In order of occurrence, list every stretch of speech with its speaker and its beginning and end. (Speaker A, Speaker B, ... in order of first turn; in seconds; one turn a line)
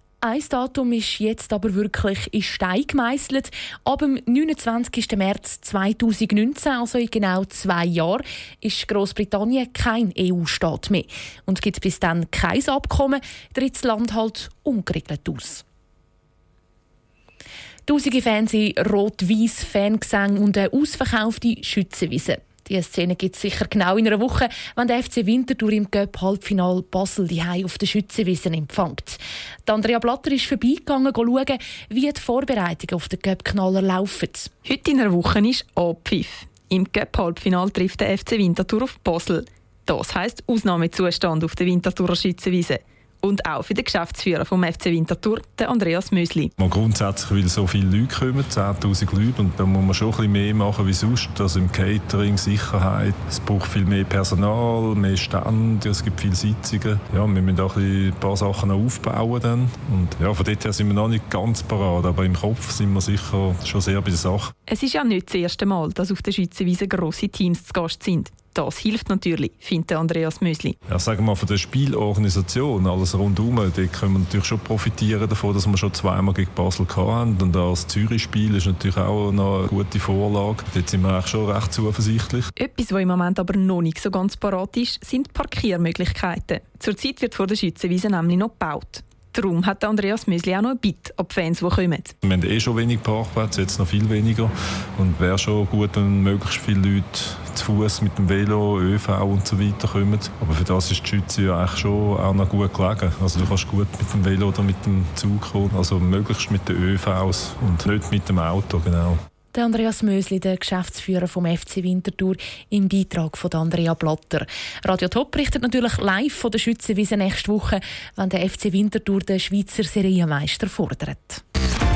Speaker A: 0.2-15.6
Speaker A: 17.9-34.5
Speaker B: 34.6-46.5
Speaker C: 46.6-64.5
Speaker B: 64.7-70.7
Speaker C: 70.9-82.5
Speaker B: 82.6-92.1
Speaker C: 92.2-109.2
Speaker A: 109.5-121.4